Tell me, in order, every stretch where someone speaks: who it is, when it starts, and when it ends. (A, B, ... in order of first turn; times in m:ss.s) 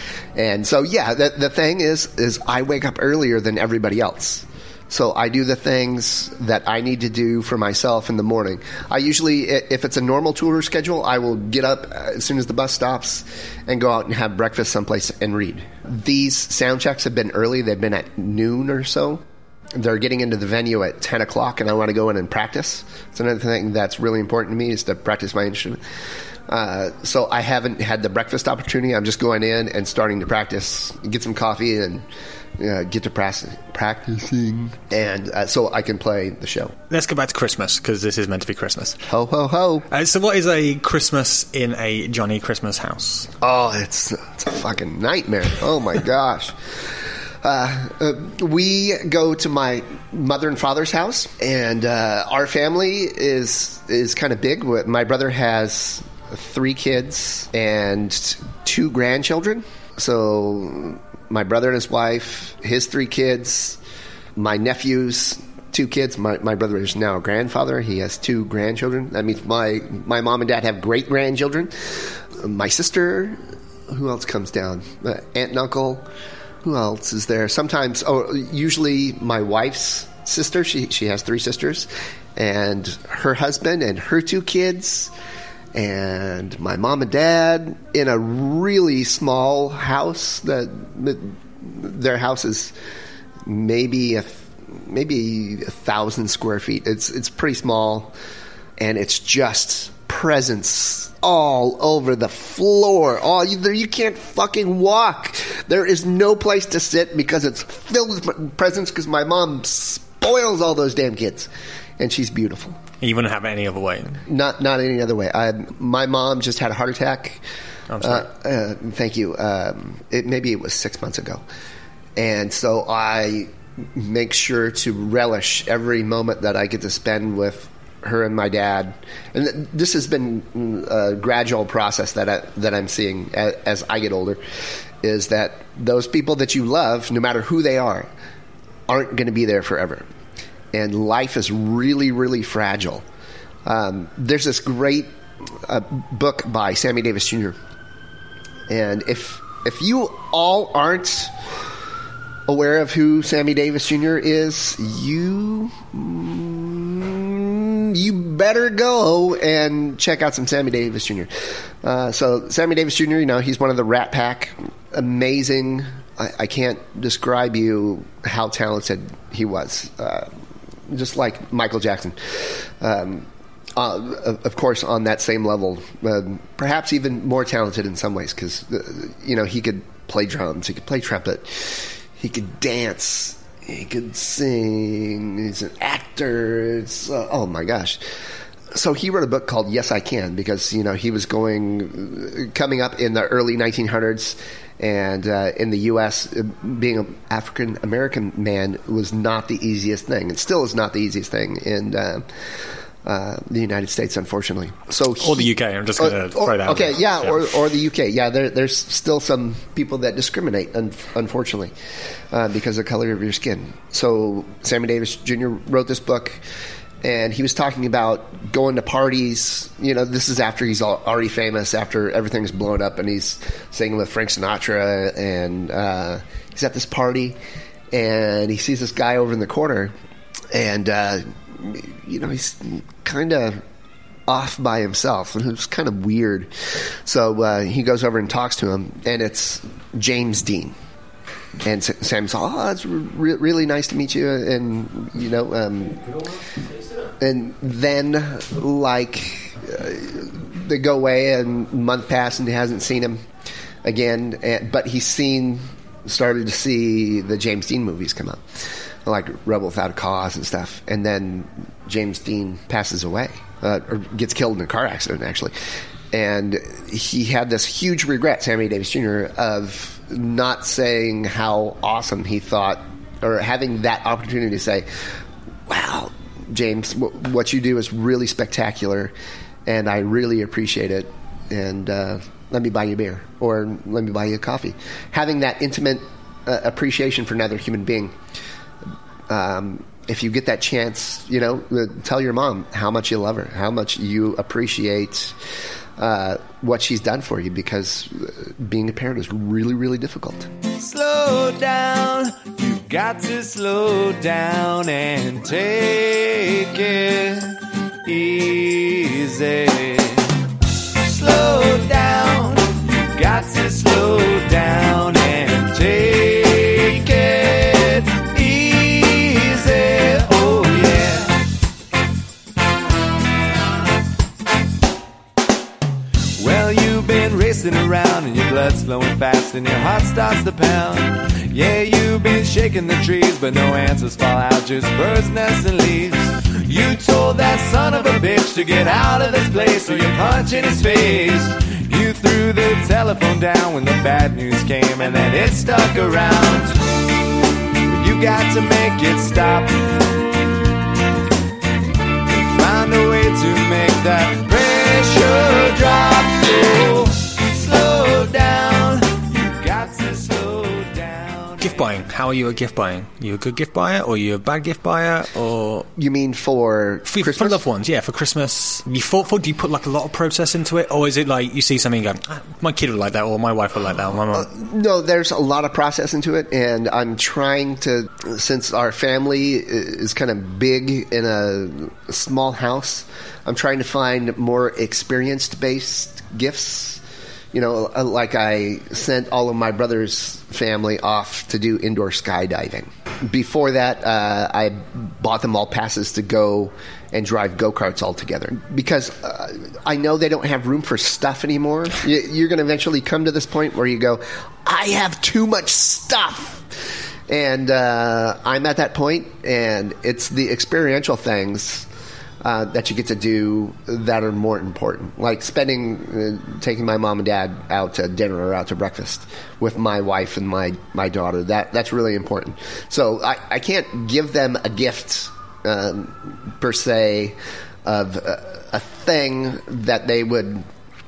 0:00.4-0:19.2 A
0:19.7-0:25.8 A
0:26.5-0:32.0 A
0:32.6-0:36.7 A
0:36.9-0:39.0 B
0:39.1-0:39.9 A
0:39.9-0:43.3 B
0:43.4-0:46.6 A
0:47.4-1:03.8 A
1:04.4-1:16.0 A
1:16.6-1:25.1 A
1:25.7-1:32.7 A
1:33.4-1:38.2 A
1:38.8-1:52.8 A
1:53.0-1:54.2 B
1:54.3-1:57.4 A
1:57.9-1:58.3 B
1:58.0-2:01.4 A
2:02.2-2:14.4 A
2:15.0-2:18.1 A
2:18.9-2:20.0 A
2:20.7-2:23.0 A
2:23.7-2:27.6 A
2:28.7-2:31.3 A
2:32.5-2:41.3 A
2:41.8-2:50.3 A
2:50.9-3:08.0 A
3:08.7-3:22.3 A
3:23.0-3:31.7 A
3:25.2-3:27.4 B
3:32.3-3:36.4 A
3:37.0-3:47.4 A
3:47.9-3:49.9 A
3:50.5-3:53.6 A
3:54.3-4:00.8 A
4:01.6-4:06.1 A
4:07.2-4:13.2 A
4:13.8-4:25.5 A
4:26.1-4:34.9 A
4:35.7-4:39.1 A
4:39.7-4:48.2 A
4:49.3-4:55.4 A
4:56.0-5:00.5 A
5:00.8-5:10.4 C
5:11.0-5:21.4 C
5:26.4-5:46.8 C
5:47.9-5:49.9 C
5:52.3-6:01.9 C
6:01.6-6:05.9 B
6:06.0-6:07.6 A
6:07.1-6:14.5 B
6:14.3-6:51.9 A
6:52.4-7:10.7 A